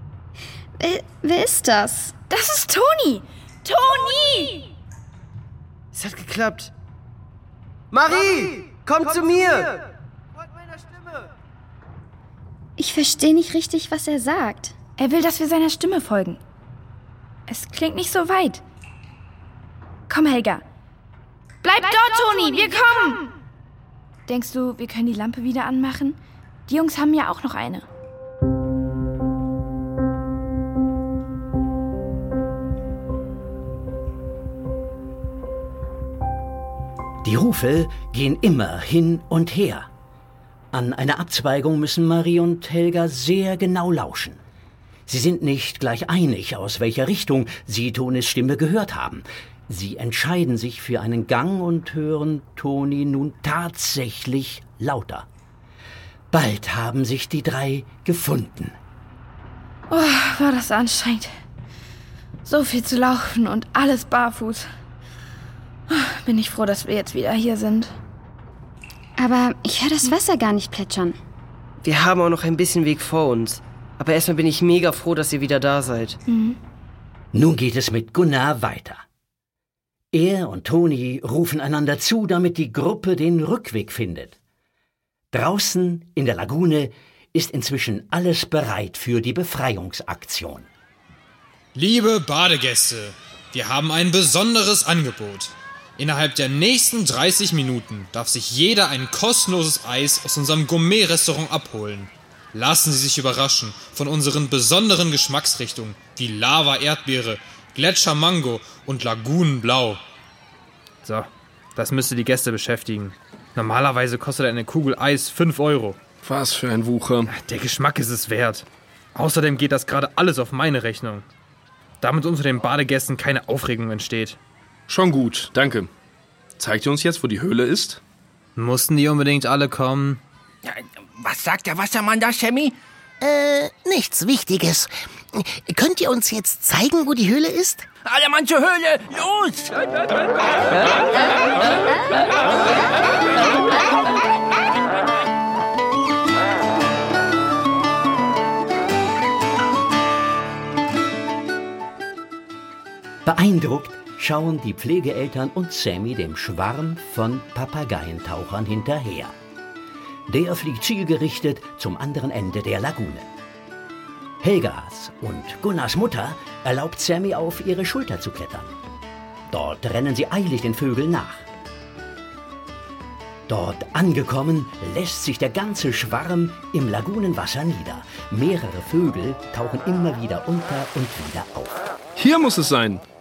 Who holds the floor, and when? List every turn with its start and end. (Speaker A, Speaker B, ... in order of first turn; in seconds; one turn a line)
Speaker A: 0.8-2.1
Speaker B: 2.3-4.7
Speaker C: 5.9-6.7
Speaker C: 7.9-9.8
Speaker A: 12.8-14.7
Speaker B: 15.0-16.4
Speaker B: 17.5-18.6
Speaker B: 20.1-20.6
Speaker B: 21.6-23.3
Speaker B: 24.3-27.9
Speaker D: 37.2-39.9
Speaker D: 40.7-44.4
Speaker D: 45.1-55.3
Speaker D: 56.3-58.8
Speaker B: 59.9-61.3
Speaker B: 62.5-64.7
Speaker B: 65.9-67.9
Speaker A: 69.2-71.2
Speaker C: 71.8-76.2
Speaker B: 76.3-76.6
Speaker D: 77.3-79.0
Speaker D: 80.1-84.4
Speaker D: 85.3-90.7
Speaker E: 91.8-110.0
Speaker E: 111.0-116.0
Speaker F: 116.2-117.3
Speaker E: 117.3-121.2
Speaker E: 122.0-124.4
Speaker F: 124.9-125.9
Speaker F: 126.6-128.0
Speaker E: 128.6-130.2
Speaker G: 130.6-132.8
Speaker H: 133.2-137.9
Speaker G: 138.1-139.8
Speaker D: 153.2-159.3
Speaker D: 160.3-163.3
Speaker D: 164.4-168.7
Speaker D: 169.5-171.5
Speaker D: 173.5-181.8
Speaker F: 182.2-183.0